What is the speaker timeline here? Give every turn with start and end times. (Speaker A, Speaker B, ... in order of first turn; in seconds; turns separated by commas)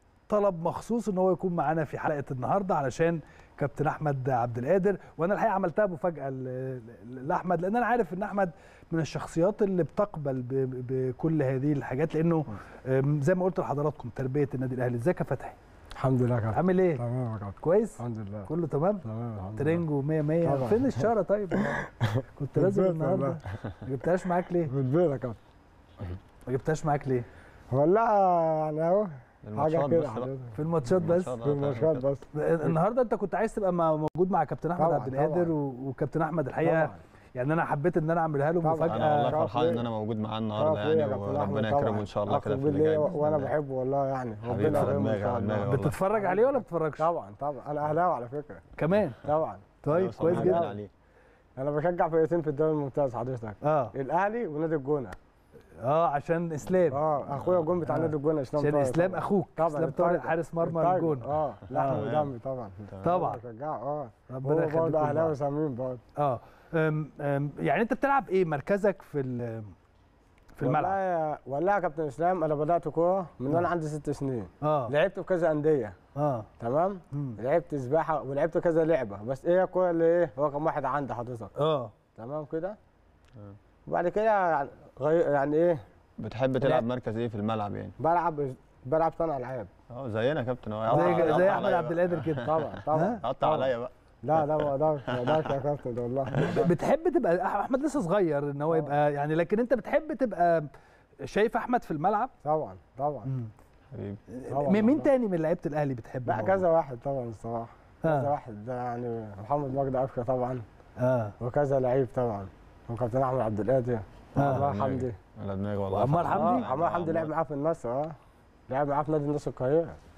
Speaker A: 0.3-15.6, Speaker B: 16.0-18.5, Speaker A: 16.5-17.0, Speaker A: 17.6-19.1, Speaker B: 19.0-19.8, Speaker A: 19.6-24.7, Speaker B: 20.4-23.4, Speaker B: 24.6-25.4, Speaker A: 26.5-27.3, Speaker B: 27.7-30.6, Speaker C: 29.4-30.3, Speaker A: 30.5-31.3, Speaker C: 30.9-32.1, Speaker B: 31.4-32.8, Speaker A: 32.3-39.4, Speaker B: 34.8-35.5, Speaker B: 36.6-37.0, Speaker B: 38.6-39.9, Speaker C: 38.8-43.5, Speaker B: 40.5-48.6, Speaker C: 44.4-46.0, Speaker A: 45.6-47.1, Speaker A: 48.8-49.2, Speaker B: 49.2-50.8, Speaker A: 49.8-50.7, Speaker C: 49.9-50.9, Speaker B: 51.6-55.2, Speaker A: 53.6-54.0, Speaker A: 55.8-57.0, Speaker B: 56.9-66.0, Speaker C: 57.3-57.7, Speaker A: 57.9-62.0, Speaker C: 61.7-63.2, Speaker A: 63.0-63.4, Speaker A: 64.3-65.4, Speaker A: 66.2-69.7, Speaker A: 70.5-71.0, Speaker B: 70.6-76.0, Speaker A: 74.6-74.9, Speaker A: 76.2-76.5, Speaker B: 76.6-81.5, Speaker A: 77.1-77.4, Speaker A: 81.6-81.9, Speaker B: 82.2-82.8, Speaker B: 83.9-85.8, Speaker C: 86.2-88.0, Speaker B: 88.0-89.7, Speaker C: 89.9-95.6, Speaker B: 90.9-91.8, Speaker A: 90.9-93.2, Speaker B: 92.4-93.7, Speaker B: 94.2-96.7, Speaker C: 96.3-96.6, Speaker A: 96.4-100.7, Speaker A: 101.2-102.3, Speaker B: 102.4-103.3, Speaker A: 103.3-103.5, Speaker C: 103.9-104.2, Speaker A: 104.3-106.6, Speaker B: 104.5-105.1, Speaker B: 106.3-110.6, Speaker A: 108.0-108.3, Speaker A: 111.0-111.3, Speaker B: 111.4-115.2, Speaker A: 114.3-114.7, Speaker C: 114.4-117.3, Speaker A: 115.9-116.7, Speaker B: 116.3-118.2, Speaker B: 118.7-120.0